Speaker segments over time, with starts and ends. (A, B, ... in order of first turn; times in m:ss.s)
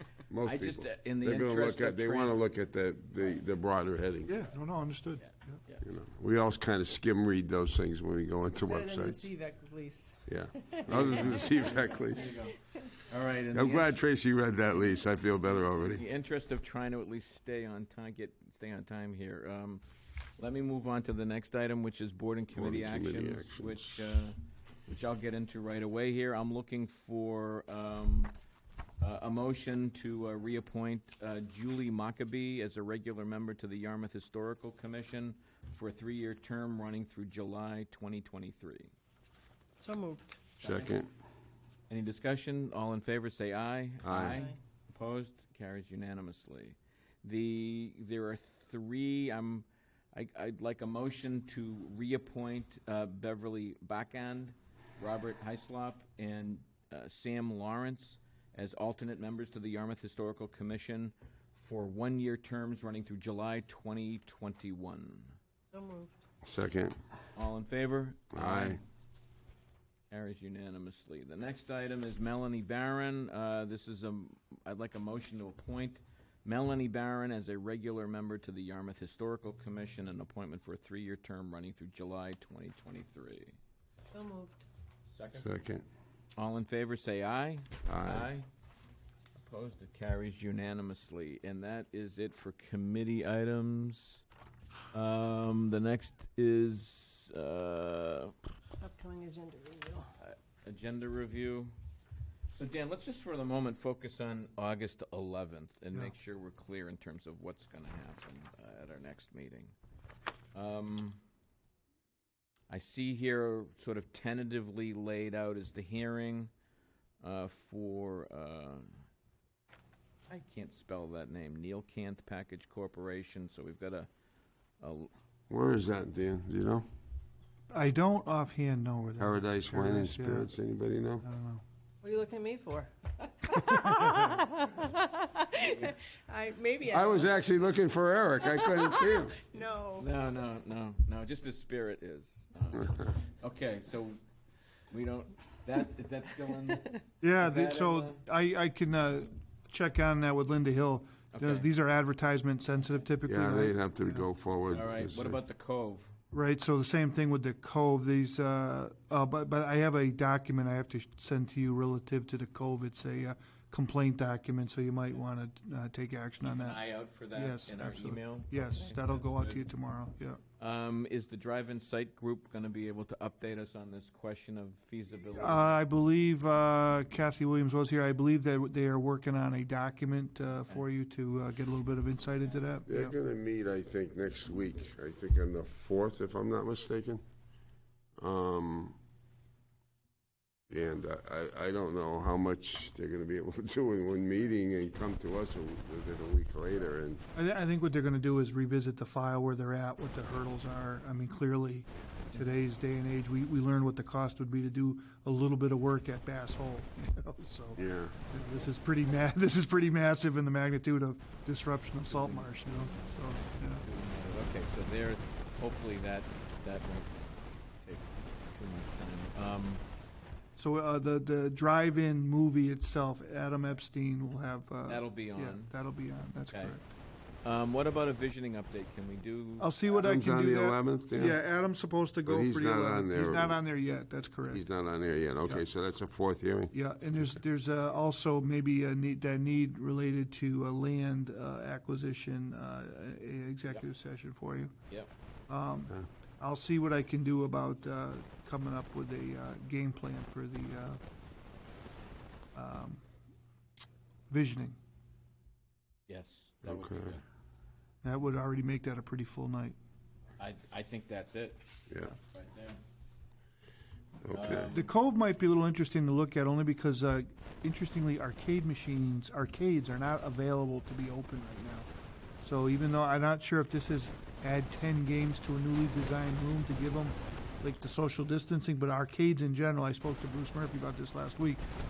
0:00.3-0:04.5 A
0:00.4-0:02.4 B
0:04.3-0:05.2 C
0:05.2-0:05.8 B
0:05.8-0:09.3 A
0:08.7-0:11.5 D
0:10.3-0:12.4 A
0:10.9-0:14.0 B
0:13.5-0:16.0 A
0:15.7-0:19.8 B
0:20.4-0:28.4 B
0:22.5-0:24.2 A
0:29.0-0:38.9 B
0:39.8-0:41.0 D
0:40.6-0:41.1 A
0:41.9-1:05.4 B
0:44.0-0:44.4 A
1:05.7-1:06.2 D
1:06.4-1:07.0 A
1:07.4-1:08.8 B
1:08.3-1:08.8 A
1:10.1-1:23.6 B
1:24.1-1:24.7 D
1:25.1-1:25.5 B
1:25.3-1:25.8 A
1:26.4-1:28.5 B
1:27.8-1:28.3 A
1:29.4-1:34.2 B
1:34.9-1:38.3 B
1:38.8-1:40.1 D
1:40.2-1:41.7 B
1:42.5-1:49.8 B
1:50.5-1:51.2 B
1:52.7-1:56.5 B
1:57.2-1:59.0 B
2:00.3-2:04.1 B
2:04.8-2:05.1 B
2:05.5-2:06.8 A
2:07.7-2:10.5 C
2:09.2-2:11.2 A
2:11.2-2:11.6 C
2:12.0-2:17.3 D
2:15.6-2:16.0 B
2:16.9-2:19.4 A
2:18.5-2:20.1 D
2:20.0-2:24.2 B
2:24.9-2:28.2 B
2:27.2-2:34.3 C
2:31.3-2:31.7 B
2:33.2-2:35.4 A
2:34.7-2:36.1 B
2:36.3-2:50.4 C
2:46.4-2:49.7 B
2:50.6-2:55.8 B
2:55.4-3:03.1 C
3:02.9-3:07.2 A
3:08.2-3:09.0 A
3:10.7-3:17.2 A
3:17.4-3:33.8 C
3:27.8-3:28.2 A
3:32.0-3:37.2 B
3:37.8-3:39.8 B
3:40.6-3:46.8 C
3:44.9-3:45.8 B
3:46.5-3:46.8 B
3:47.4-3:49.7 B
3:49.6-3:54.6 C
3:49.9-3:51.4 A
3:52.2-3:53.6 A
3:54.5-3:56.7 A
3:56.7-4:04.8 C
4:05.5-4:11.0 C
4:12.6-4:13.0 C
4:14.3-4:14.8 C
4:16.1-4:17.2 B
4:16.6-4:17.2 A
4:18.0-4:19.8 C
4:20.4-4:22.8 B
4:21.9-4:22.1 A
4:24.2-4:24.8 A
4:24.3-4:24.9 B
4:24.7-4:31.9 C
4:32.4-4:41.6 C